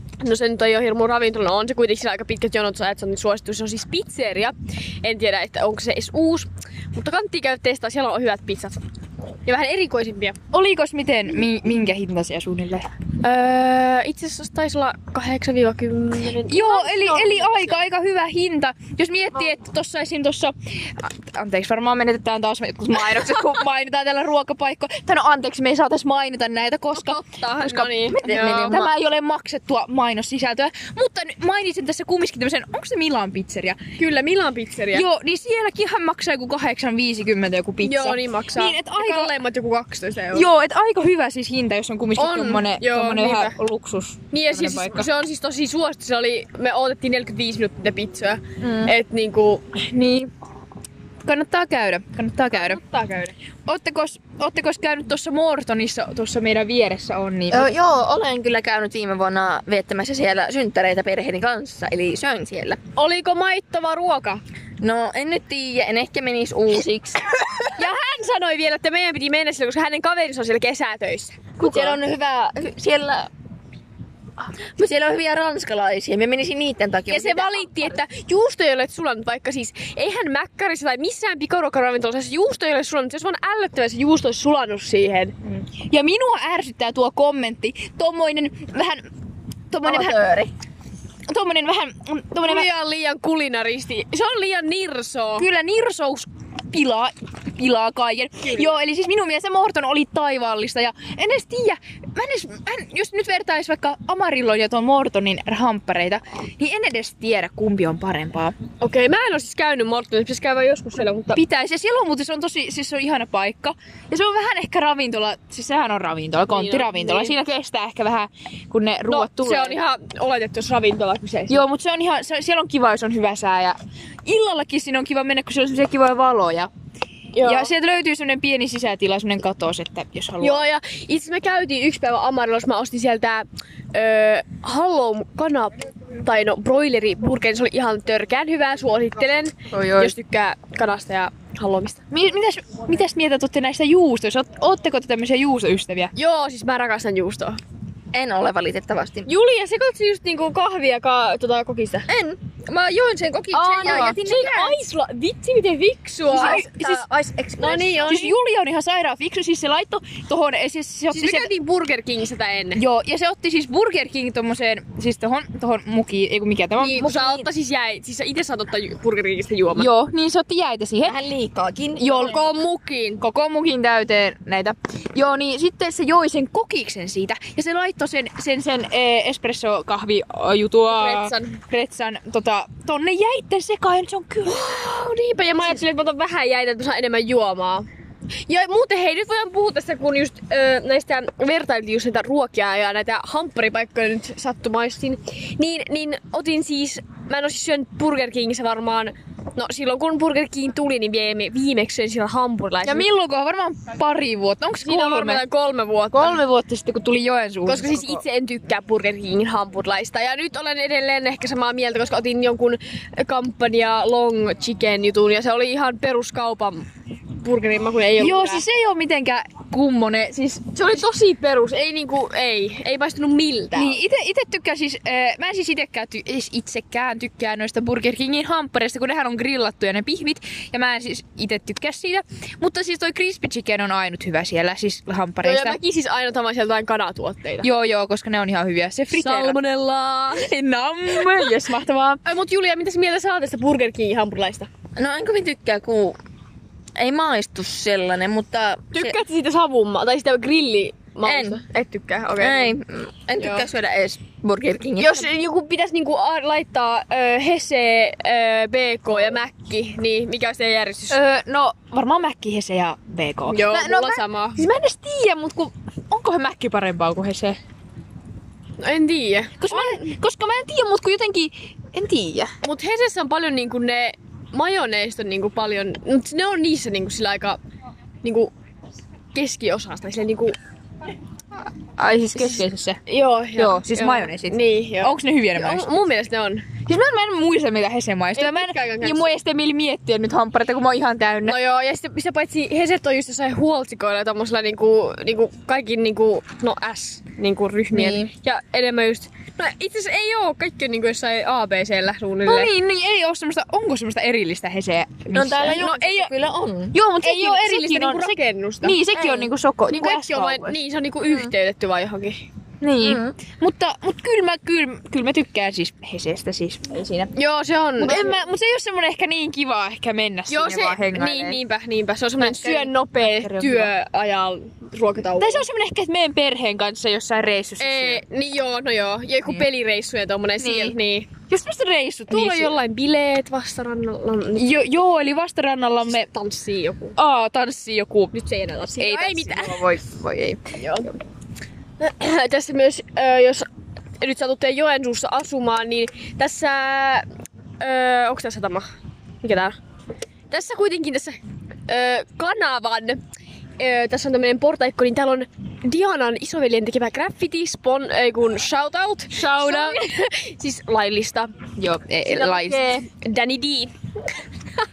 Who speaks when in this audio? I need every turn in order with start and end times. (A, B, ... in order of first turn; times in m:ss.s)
0:00.2-0:08.8 A
0:09.4-0:10.4 A
0:10.5-0:12.9 B
0:13.2-0:17.8 A
0:16.5-0:33.8 B
0:26.9-0:28.8 A
0:28.2-0:28.9 C
0:34.0-0:35.0 A
0:34.9-0:39.3 B
0:37.8-0:40.5 A
0:40.3-0:45.1 B
0:42.2-0:43.6 A
0:44.3-0:49.6 A
0:48.6-0:48.9 B
0:49.7-0:50.3 B
0:51.2-0:52.8 B
0:52.5-0:53.3 A
0:53.7-0:57.7 B
0:57.5-1:02.8 C
1:03.0-1:04.4 A
1:04.8-1:07.3 C
1:07.8-1:12.0 A
1:11.6-1:13.3 C
1:14.8-1:17.6 C
1:17.1-1:25.3 A
1:25.8-1:29.1 B
1:29.7-1:30.2 B
1:29.8-1:30.5 C
1:31.3-1:32.7 B
1:32.4-1:35.4 A
1:35.4-1:48.5 B
1:48.8-1:51.4 A
1:51.3-1:59.8 B
1:56.5-1:57.3 A
1:59.1-2:01.6 A
2:01.4-2:06.7 B
2:07.3-2:07.7 A
2:07.4-2:10.6 B
2:10.4-2:22.0 A
2:19.7-2:20.1 C
2:22.1-2:26.1 B
2:26.2-2:27.6 A
2:28.1-2:29.3 C
2:29.3-2:32.1 A
2:32.1-2:34.7 C
2:33.5-2:37.0 A
2:33.8-2:34.7 B
2:36.3-2:38.2 C
2:36.3-2:37.0 B
2:37.6-2:38.3 A
2:38.1-2:41.5 B
2:41.1-2:42.8 A
2:42.8-2:47.4 B
2:46.8-2:49.9 A
2:49.8-2:51.2 B
2:51.0-2:52.3 C
2:52.0-2:52.4 B
2:52.0-2:53.2 A
2:53.2-3:04.7 B
3:00.9-3:01.6 A
3:04.4-3:07.9 A
3:08.5-3:23.0 A
3:22.8-3:25.4 B
3:24.8-3:26.4 A
3:26.1-3:28.2 B
3:27.6-3:36.9 A
3:37.4-3:38.6 A
3:38.2-3:40.9 B
3:40.7-3:44.0 A
3:43.7-3:55.8 B
3:55.4-3:57.7 A
3:57.6-3:59.6 B
3:59.1-4:00.5 A
4:00.3-4:02.2 B
4:02.2-4:04.7 A
4:05.0-4:06.2 C
4:07.0-4:09.2 C
4:08.9-4:12.7 A
4:11.2-4:11.6 C
4:12.4-4:15.3 C
4:13.4-4:13.7 A
4:15.0-4:21.2 A
4:21.1-4:27.6 B
4:23.5-4:24.6 A
4:28.8-4:30.1 A
4:29.6-4:32.5 B
4:32.6-4:37.6 A
4:38.2-4:38.5 A
4:39.3-4:40.6 A
4:42.0-4:43.0 B
4:42.4-4:46.7 A
4:43.5-4:46.0 B
4:46.8-4:51.6 B
4:48.4-4:49.3 A
4:51.4-5:02.7 A
5:02.4-5:05.9 B
5:05.3-5:07.0 C
5:05.6-5:06.3 A
5:06.9-5:10.8 B
5:07.2-5:09.1 A
5:09.1-5:09.5 C
5:09.9-5:12.4 A
5:11.2-5:11.5 C
5:12.8-5:17.3 B
5:13.0-5:13.3 C
5:17.3-5:18.3 A
5:18.0-5:21.6 B
5:20.5-5:25.6 A
5:22.4-5:23.9 B
5:25.4-5:28.2 B
5:27.8-5:31.3 A
5:30.6-5:30.9 B
5:31.5-5:32.8 B
5:32.3-5:34.7 A
5:34.6-5:36.3 B
5:36.1-5:37.2 A
5:37.2-5:38.3 B
5:38.3-5:39.8 A
5:39.0-5:40.7 B
5:40.8-5:41.1 A
5:42.0-5:43.7 A
5:44.2-5:47.2 A
5:47.8-5:48.8 A
5:49.4-5:49.8 A
5:50.5-5:51.4 A
5:51.9-5:53.2 A
5:53.8-6:01.5 A
5:59.3-6:00.1 B
6:01.8-6:03.0 B
6:02.2-6:03.9 A